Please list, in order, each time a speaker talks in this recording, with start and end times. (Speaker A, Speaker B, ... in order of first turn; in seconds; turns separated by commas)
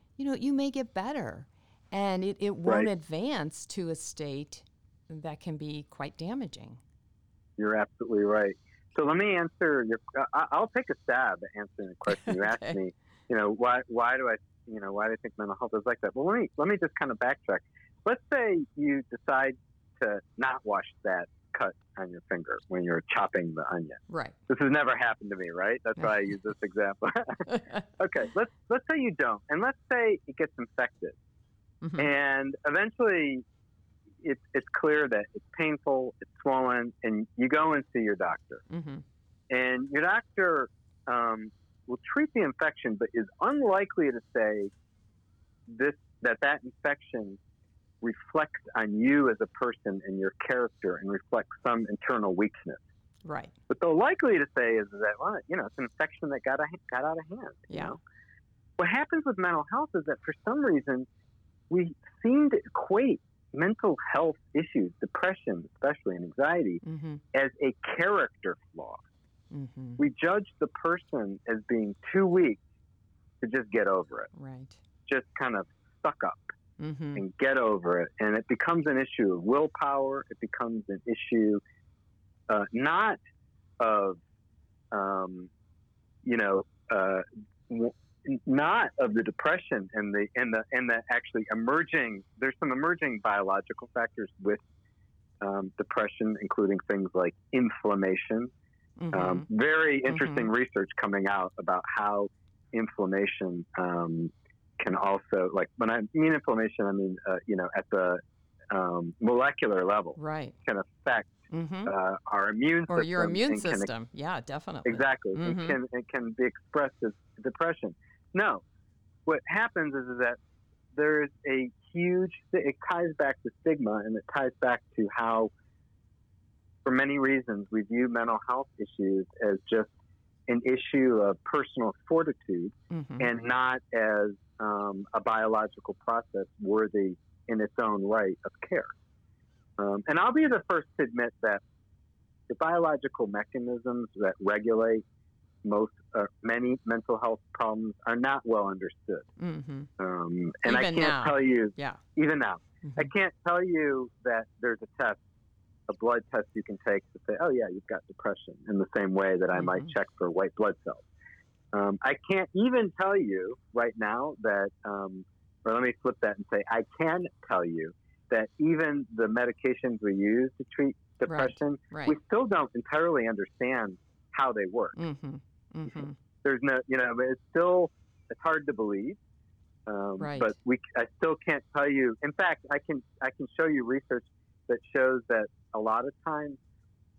Speaker A: 0.2-6.8, Speaker B: 7.6-31.1, Speaker A: 12.1-12.8, Speaker A: 24.1-24.4, Speaker A: 31.8-32.1, Speaker B: 32.0-33.4, Speaker B: 34.2-38.6, Speaker A: 38.7-39.0, Speaker B: 39.5-44.7, Speaker B: 45.7-47.4, Speaker B: 48.0-52.8, Speaker A: 53.2-53.5, Speaker B: 53.7-58.0, Speaker B: 58.8-61.1, Speaker B: 61.7-66.8, Speaker A: 66.8-67.2, Speaker B: 67.3-69.0, Speaker A: 69.5-70.0, Speaker B: 70.0-72.6, Speaker B: 73.4-74.3, Speaker A: 74.3-74.8, Speaker B: 75.1-76.5, Speaker A: 76.8-77.2, Speaker B: 77.2-81.6, Speaker B: 82.5-83.2, Speaker B: 83.8-84.2, Speaker B: 84.9-85.5, Speaker B: 86.2-94.6, Speaker B: 95.4-98.5, Speaker A: 99.0-99.5, Speaker B: 99.1-108.2, Speaker A: 100.1-100.5, Speaker B: 108.7-113.9, Speaker A: 110.2-110.5, Speaker A: 111.5-111.9, Speaker A: 112.9-115.8, Speaker B: 114.8-118.6, Speaker B: 119.2-120.4, Speaker B: 120.9-125.5, Speaker B: 126.8-129.9, Speaker B: 130.5-138.9, Speaker A: 132.9-133.3, Speaker B: 139.8-141.6, Speaker B: 142.5-145.0, Speaker B: 145.6-149.2, Speaker A: 149.4-149.9, Speaker B: 150.0-155.2, Speaker A: 150.7-152.0, Speaker A: 152.8-153.1, Speaker B: 155.9-161.0, Speaker A: 159.5-159.9, Speaker B: 161.7-175.0, Speaker A: 171.3-172.1, Speaker A: 175.0-176.1, Speaker B: 175.9-179.2, Speaker B: 179.9-186.6, Speaker A: 180.2-180.5